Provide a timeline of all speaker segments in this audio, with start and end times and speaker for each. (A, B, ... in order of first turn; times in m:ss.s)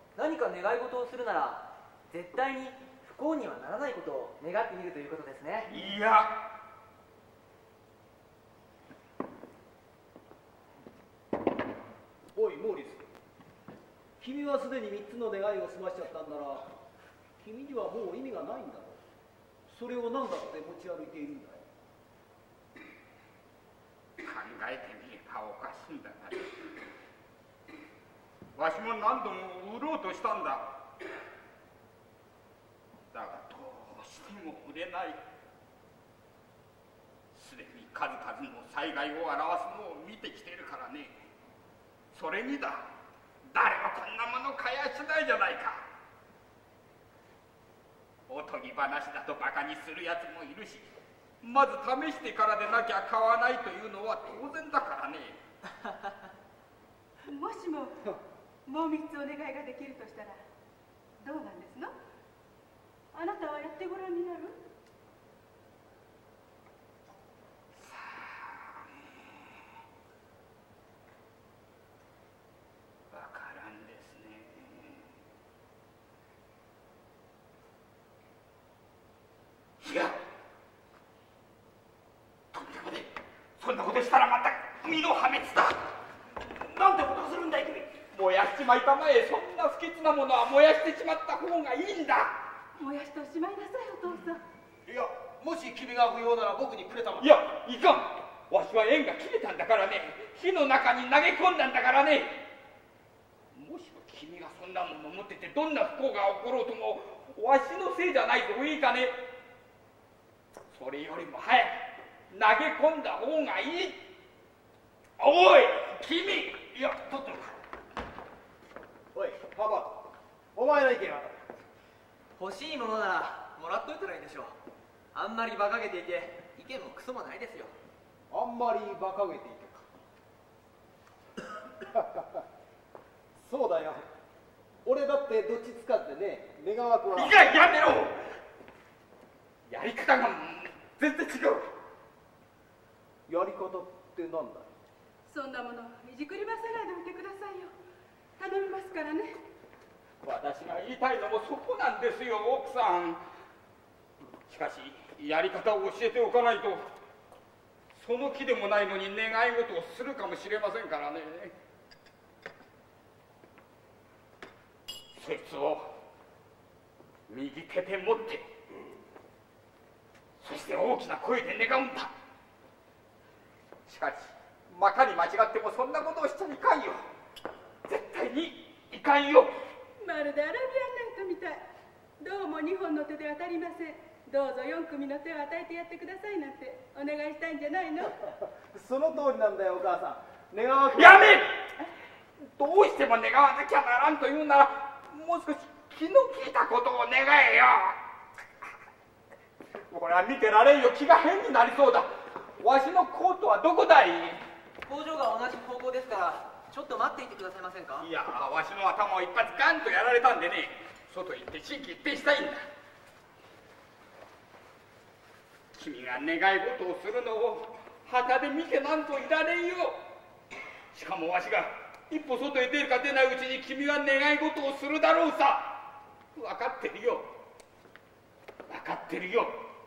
0:00.1-0:05.7 A
0:05.7-0:06.3 B
0:12.3-0:13.1 C
0:14.2-0:16.7 C
0:17.4-0:19.0 C
0:19.7-0:21.6 C
0:24.2-0:26.5 B
0:28.6-0:30.6 B
0:33.1-0:35.2 B
0:37.3-0:41.2 B
0:42.1-0:42.8 B
0:43.5-0:45.8 B
0:48.3-0:50.9 B
0:51.4-0:55.4 B
0:57.2-0:58.0 D
0:58.6-1:00.4 D
1:01.2-1:01.9 D
1:03.1-1:04.6 D
1:07.8-1:09.6 B
1:13.1-1:15.1 B
1:19.8-1:20.2 B
1:22.5-1:25.8 B
1:26.5-1:28.0 C
1:28.0-1:32.4 B
1:32.8-1:34.4 D
1:34.9-1:37.3 C
1:37.2-1:42.4 B
1:43.5-1:49.2 B
1:50.7-1:54.1 B
1:55.2-1:57.5 B
1:59.1-2:01.4 C
2:02.4-2:04.6 A
2:05.1-2:07.7 A
2:08.3-2:09.8 C
2:11.8-2:12.5 C
2:13.4-2:14.0 C
2:14.8-2:17.4 C
2:17.1-2:18.2 B
2:19.7-2:21.7 B
2:23.3-2:24.7 C
2:25.3-2:27.7 D
2:28.4-2:29.4 D
2:30.2-2:33.2 B
2:34.5-2:36.8 B
2:37.9-2:41.5 B
2:45.1-2:45.9 B
2:47.3-2:48.4 B
2:50.4-2:52.1 B
2:53.8-2:57.0 B
2:57.8-2:59.6 B
3:00.0-3:01.6 D
3:02.2-3:08.2 D
3:08.2-3:11.4 C
3:10.9-3:11.8 B
3:12.4-3:18.0 B
3:19.9-3:24.4 B
3:24.8-3:28.1 A
3:28.0-3:32.6 B
3:35.7-3:40.0 B
3:40.9-3:47.3 B
3:48.7-3:49.6 B